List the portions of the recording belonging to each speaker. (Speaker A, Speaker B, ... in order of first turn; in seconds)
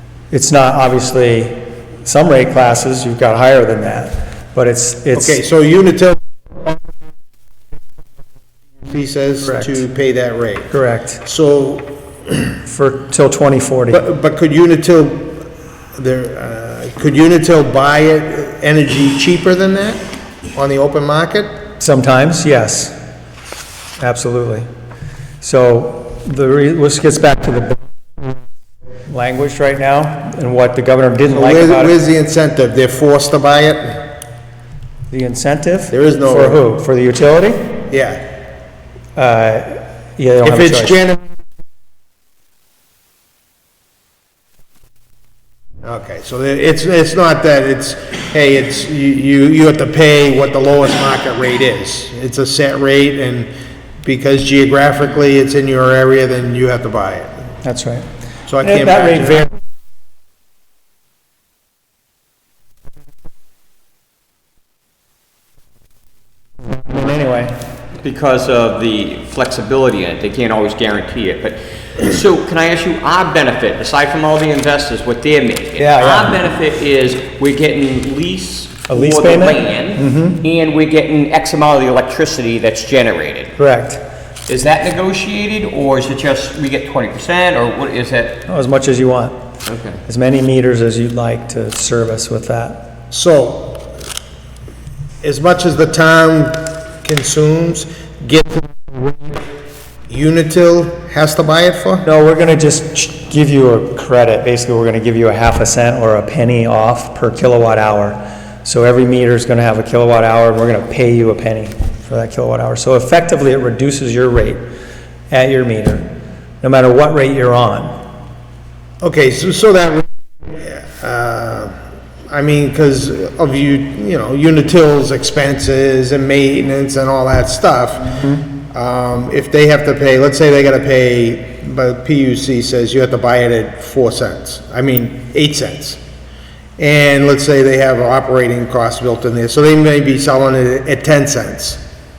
Speaker A: 0.3-5.4, 9.4-9.8, 10.7-11.2, 12.6-14.0, 21.8-22.9, 24.0-24.7, 25.4-27.8, 29.1-32.0, 35.1-37.8, 39.2-41.0, 57.6-58.1, 58.6-59.5, 66.7-67.6, 75.8-76.5, 78.9-80.4, 83.6-84.0, 88.5-89.3, 90.0-92.9, 102.0-114.6, 115.3-116.1, 116.6-118.0
Speaker B: 5.1-6.7, 8.9-10.7, 11.2-11.9, 13.9-20.0, 20.6-21.5, 31.3-34.0, 35.9-36.6, 37.9-38.2, 40.5-41.2, 45.8-53.5, 54.0-57.4, 58.5-59.5, 93.1-93.9, 95.2-99.4, 100.1-102.1, 119.0-121.8, 122.3-136.0, 136.8-141.8
Speaker C: 68.0-83.5, 84.5-88.4, 89.7-90.0